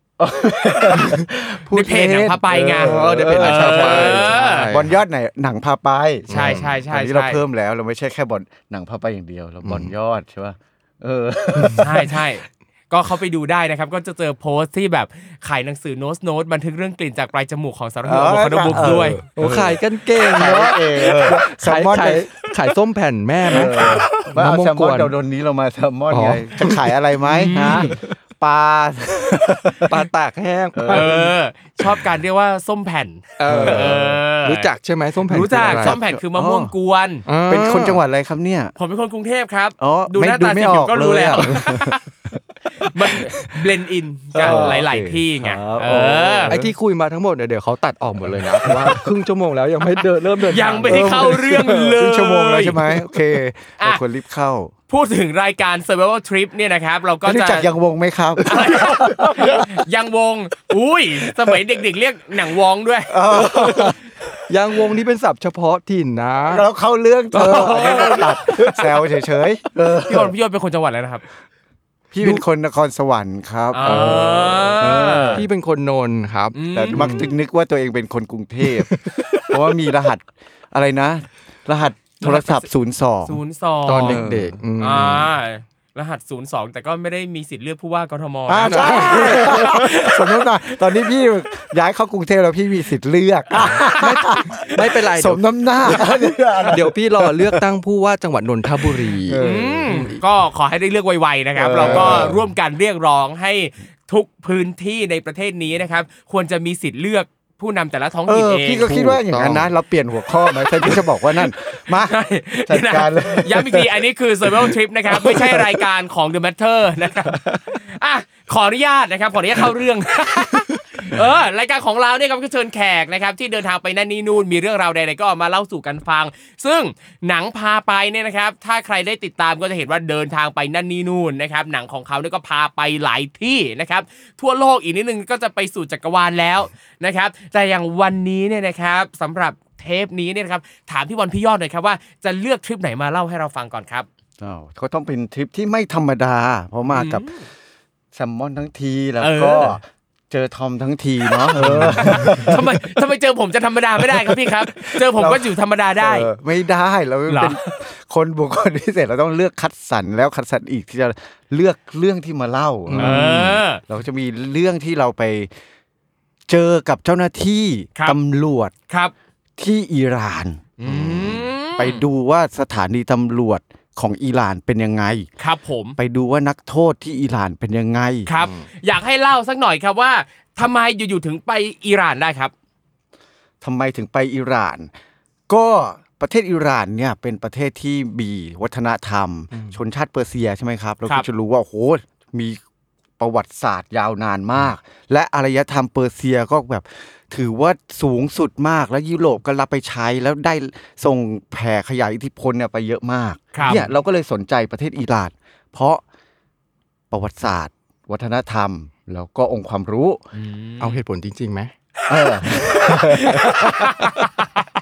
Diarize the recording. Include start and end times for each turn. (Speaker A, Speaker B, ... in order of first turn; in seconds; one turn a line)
Speaker A: 0.2-12.2
Speaker B: 1.7-4.7
Speaker C: 2.8-5.0
Speaker C: 6.3-6.7
Speaker B: 6.3-7.4
Speaker C: 9.6-9.9
Speaker C: 11.6-11.8
Speaker B: 11.8-19.2
Speaker A: 18.0-22.3
Speaker C: 18.7-25.1
Speaker A: 23.5-30.0
Speaker B: 23.5-23.9
Speaker C: 26.1-26.9
Speaker B: 27.4-28.0
Speaker C: 27.5-28.1
Speaker C: 29.8-31.3
Speaker A: 30.7-31.1
Speaker B: 30.9-34.7
Speaker C: 33.4-36.0
Speaker A: 33.4-34.2
Speaker B: 35.3-37.2
Speaker A: 35.5-36.7
Speaker C: 37.3-38.0
Speaker A: 37.5-38.7
Speaker B: 38.8-42.0
Speaker A: 39.8-41.9
Speaker B: 42.8-46.6
Speaker A: 44.3-46.7
Speaker C: 44.3-44.8
Speaker C: 45.9-52.0
Speaker A: 48.2-49.1
Speaker B: 50.5-52.8
Speaker A: 50.8-54.7
Speaker B: 54.9-57.7
Speaker A: 57.2-59.6
Speaker B: 58.5-63.1
Speaker C: 59.1-59.7
Speaker A: 63.1-64.0
Speaker C: 63.3-66.6
Speaker A: 66.5-70.3
Speaker C: 67.3-69.1
Speaker B: 70.1-71.2
Speaker A: 72.1-75.5
Speaker B: 73.7-75.4
Speaker C: 73.8-74.8
Speaker C: 75.3-77.3
Speaker B: 76.5-77.2
Speaker A: 76.7-83.4
Speaker C: 78.8-79.5
Speaker B: 82.2-82.7
Speaker B: 83.2-84.2
Speaker C: 83.8-85.3
Speaker A: 83.9-84.6
Speaker B: 84.8-90.2
Speaker A: 88.5-97.6
Speaker C: 88.7-89.8
Speaker C: 93.6-100.2
Speaker B: 93.6-94.3
Speaker A: 98.8-100.1
Speaker B: 99.4-108.9
Speaker A: 101.5-102.4
Speaker C: 101.8-102.3
Speaker A: 108.3-113.9
Speaker C: 108.8-109.7
Speaker B: 111.8-144.1
Speaker A: 115.2-115.6
Speaker C: 117.3-117.6
Speaker A: 144.4-147.2
Speaker B: 146.9-147.5
Speaker A: 148.1-152.6
Speaker B: 149.2-149.8
Speaker B: 151.5-156.3
Speaker C: 151.6-152.4
Speaker A: 154.7-155.5
Speaker A: 156.0-165.5
Speaker B: 157.3-157.6
Speaker C: 162.9-163.6
Speaker B: 162.9-163.8
Speaker A: 166.5-168.7
Speaker A: 169.6-171.2
Speaker B: 170.8-172.0
Speaker C: 170.9-171.3
Speaker A: 171.7-175.3
Speaker B: 175.4-176.0
Speaker A: 176.0-178.3
Speaker B: 178.3-182.5
Speaker C: 178.3-178.6
Speaker A: 183.6-184.9
Speaker A: 185.5-192.6
Speaker A: 193.2-206.0
Speaker B: 203.5-203.8
Speaker C: 203.6-203.9
Speaker A: 207.1-210.2
Speaker B: 210.3-211.0
Speaker C: 210.8-211.7
Speaker A: 212.1-213.8
Speaker B: 212.5-214.6
Speaker C: 213.1-213.9